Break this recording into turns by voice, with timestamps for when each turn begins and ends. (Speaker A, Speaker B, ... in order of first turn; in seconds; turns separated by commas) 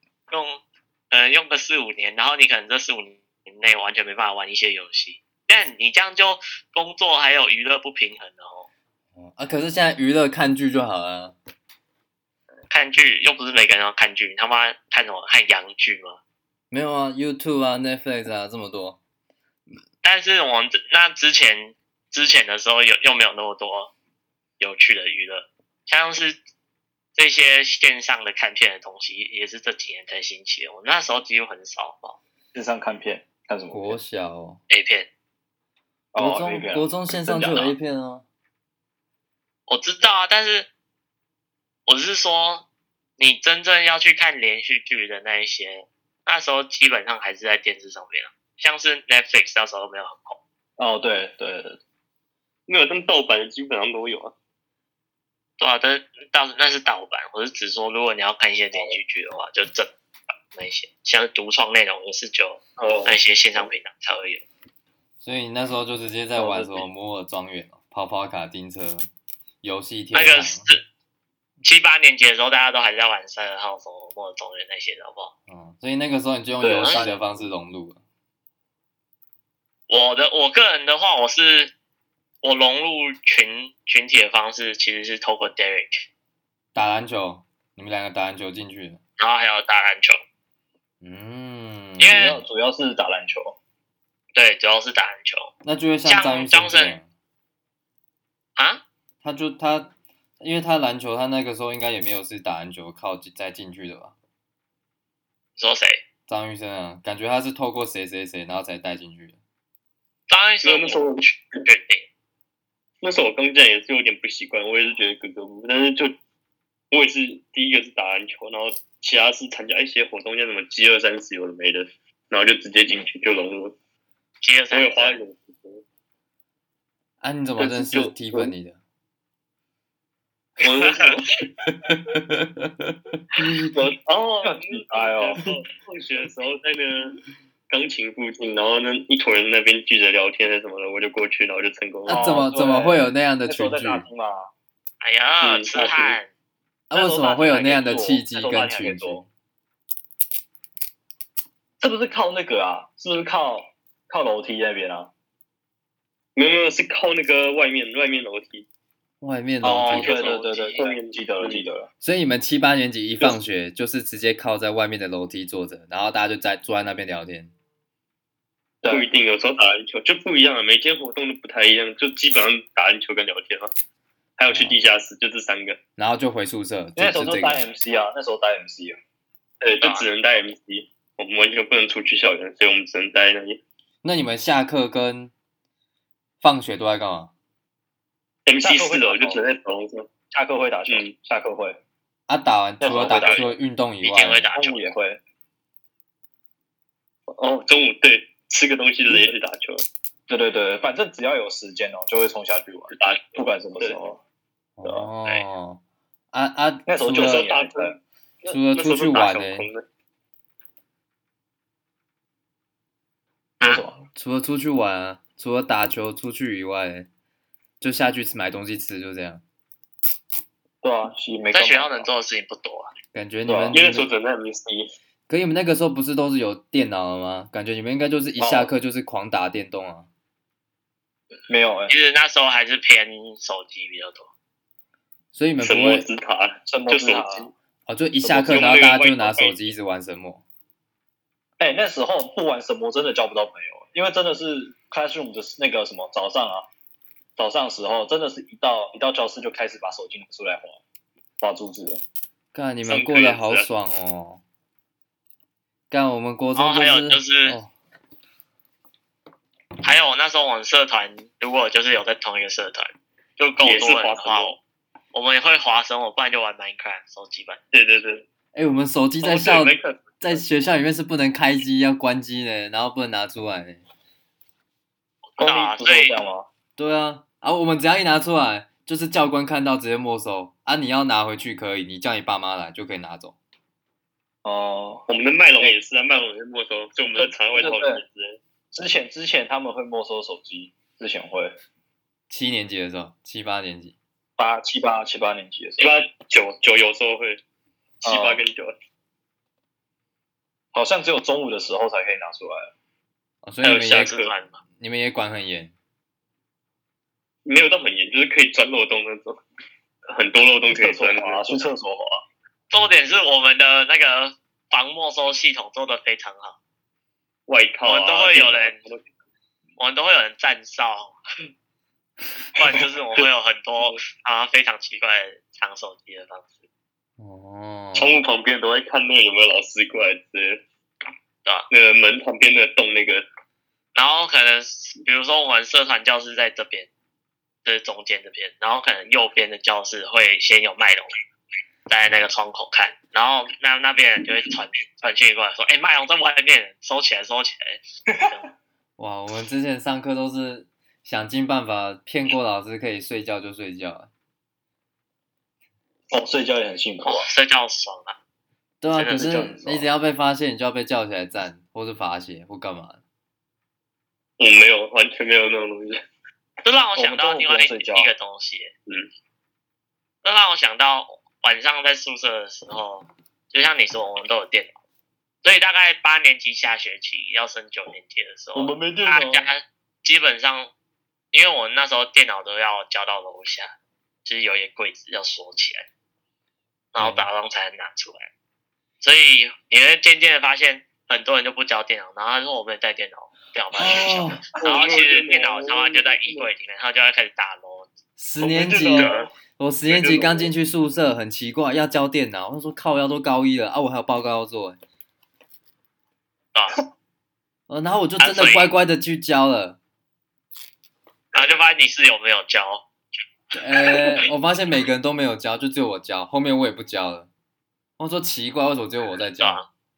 Speaker A: 0.3-8.7, Speaker B: 9.2-11.3, Speaker A: 12.7-16.2, Speaker B: 16.7-19.0, Speaker A: 20.0-23.9, Speaker A: 24.6-26.4, Speaker A: 27.1-32.2, Speaker C: 32.5-34.0, Speaker B: 33.7-34.6, Speaker A: 34.7-35.1, Speaker C: 36.1-37.8, Speaker B: 36.2-38.2, Speaker A: 39.7-40.7, Speaker A: 41.9-42.7, Speaker A: 43.2-50.4, Speaker C: 50.8-51.8, Speaker D: 52.7-54.3, Speaker A: 55.6-59.9, Speaker A: 60.5-64.4, Speaker D: 62.8-63.2, Speaker B: 65.2-69.1, Speaker C: 66.4-66.9, Speaker B: 69.6-70.7, Speaker A: 70.1-70.8, Speaker A: 71.6-75.3, Speaker B: 75.5-78.0, Speaker C: 76.6-77.2, Speaker A: 76.8-77.1, Speaker A: 79.9-81.7, Speaker A: 82.4-86.0, Speaker B: 86.7-89.0, Speaker A: 89.2-90.2, Speaker B: 91.0-92.3, Speaker A: 92.0-92.4, Speaker C: 92.1-93.6, Speaker A: 94.3-95.5, Speaker B: 95.6-97.1, Speaker A: 96.1-97.0, Speaker A: 98.6-98.8, Speaker B: 99.2-104.1, Speaker A: 105.6-106.0, Speaker B: 106.3-109.4, Speaker A: 110.3-112.1, Speaker D: 110.6-111.3, Speaker D: 113.0-116.2, Speaker D: 116.9-123.8, Speaker A: 124.4-125.2, Speaker D: 124.7-125.8, Speaker B: 127.2-128.8, Speaker D: 127.6-128.5, Speaker D: 130.6-131.4, Speaker B: 131.7-133.7, Speaker D: 133.6-137.2, Speaker C: 134.4-135.4, Speaker D: 137.7-142.2, Speaker B: 142.1-144.1, Speaker C: 142.1-144.5, Speaker A: 145.0-146.3, Speaker D: 145.4-146.2, Speaker B: 146.9-149.3, Speaker C: 146.9-149.2, Speaker C: 151.8-155.1, Speaker D: 156.3-158.7, Speaker B: 159.2-160.2, Speaker A: 159.6-160.8, Speaker C: 159.6-161.9, Speaker D: 160.8-161.7, Speaker B: 162.0-167.5, Speaker C: 168.8-169.1, Speaker D: 168.9-173.7, Speaker D: 174.4-175.8, Speaker B: 174.5-174.8, Speaker B: 176.0-177.6, Speaker C: 177.0-179.0, Speaker D: 179.6-183.6, Speaker A: 179.8-180.1, Speaker B: 184.0-185.3, Speaker B: 186.4-187.3, Speaker D: 188.5-190.1, Speaker C: 188.6-189.4, Speaker C: 190.3-191.8, Speaker D: 190.9-191.1, Speaker B: 192.3-194.5, Speaker C: 192.8-193.5, Speaker D: 192.9-193.4, Speaker A: 194.0-194.9, Speaker C: 194.6-195.2, Speaker D: 197.3-199.8, Speaker C: 200.3-204.2, Speaker D: 202.9-204.0, Speaker B: 204.8-205.8, Speaker C: 204.8-205.1, Speaker B: 206.3-207.5, Speaker C: 206.9-208.0, Speaker D: 207.1-209.9, Speaker B: 208.5-209.7, Speaker C: 213.6-214.0, Speaker B: 214.1-217.1, Speaker B: 217.8-219.4, Speaker C: 220.8-222.1, Speaker A: 221.5-222.9, Speaker B: 223.1-224.1, Speaker C: 223.5-223.8, Speaker D: 223.7-224.9, Speaker B: 225.3-230.1, Speaker C: 228.4-228.7, Speaker C: 231.5-231.9, Speaker A: 231.9-234.3, Speaker B: 235.3-236.1, Speaker D: 235.6-237.5, Speaker C: 236.7-237.5, Speaker B: 237.9-240.4, Speaker C: 238.2-238.7, Speaker D: 238.4-239.6, Speaker C: 241.6-246.7, Speaker C: 247.4-250.8, Speaker C: 251.4-252.0, Speaker B: 252.5-254.4, Speaker D: 252.8-253.7, Speaker B: 255.9-257.7, Speaker A: 256.6-257.6, Speaker A: 259.8-264.6, Speaker D: 263.6-264.6, Speaker A: 265.1-267.6, Speaker D: 267.7-268.2, Speaker B: 268.5-273.8, Speaker D: 269.2-270.4, Speaker A: 275.4-276.2, Speaker C: 275.4-276.5, Speaker B: 276.8-283.4, Speaker C: 284.4-285.8, Speaker D: 285.1-288.4, Speaker C: 287.2-288.0, Speaker C: 288.7-291.6, Speaker B: 292.3-294.0, Speaker C: 294.4-295.9, Speaker D: 295.8-297.4, Speaker D: 298.0-298.7, Speaker C: 298.0-298.4, Speaker C: 300.7-302.7, Speaker B: 303.4-304.2, Speaker D: 303.6-304.3, Speaker A: 303.9-304.6, Speaker B: 304.8-305.7, Speaker D: 307.4-309.4, Speaker D: 310.1-311.7, Speaker C: 310.7-312.2, Speaker A: 312.7-316.6, Speaker D: 317.5-319.0, Speaker A: 317.9-318.8, Speaker A: 319.8-321.2, Speaker A: 322.6-326.5, Speaker B: 327.2-328.2, Speaker D: 327.9-330.6, Speaker D: 331.7-333.2, Speaker A: 333.9-336.9, Speaker A: 337.6-341.1, Speaker A: 341.9-348.5, Speaker B: 349.0-354.1, Speaker C: 356.1-357.3, Speaker A: 357.1-358.2, Speaker B: 358.8-363.0, Speaker A: 358.9-359.3, Speaker C: 359.1-359.9, Speaker D: 364.4-366.0, Speaker A: 366.6-368.7, Speaker C: 367.0-368.1, Speaker A: 370.2-374.8, Speaker A: 375.4-380.7, Speaker C: 378.6-379.5, Speaker A: 381.3-383.7, Speaker A: 384.2-385.9, Speaker A: 386.9-388.3, Speaker B: 387.0-387.3, Speaker A: 389.0-397.9, Speaker B: 393.8-394.4, Speaker D: 394.6-396.5, Speaker B: 398.2-404.8, Speaker C: 398.4-399.2, Speaker A: 398.9-399.3, Speaker D: 399.9-400.5, Speaker B: 407.7-409.8, Speaker A: 408.2-408.7, Speaker A: 411.3-412.9, Speaker B: 413.5-417.3, Speaker A: 413.8-414.2, Speaker B: 418.0-419.6, Speaker A: 419.4-419.7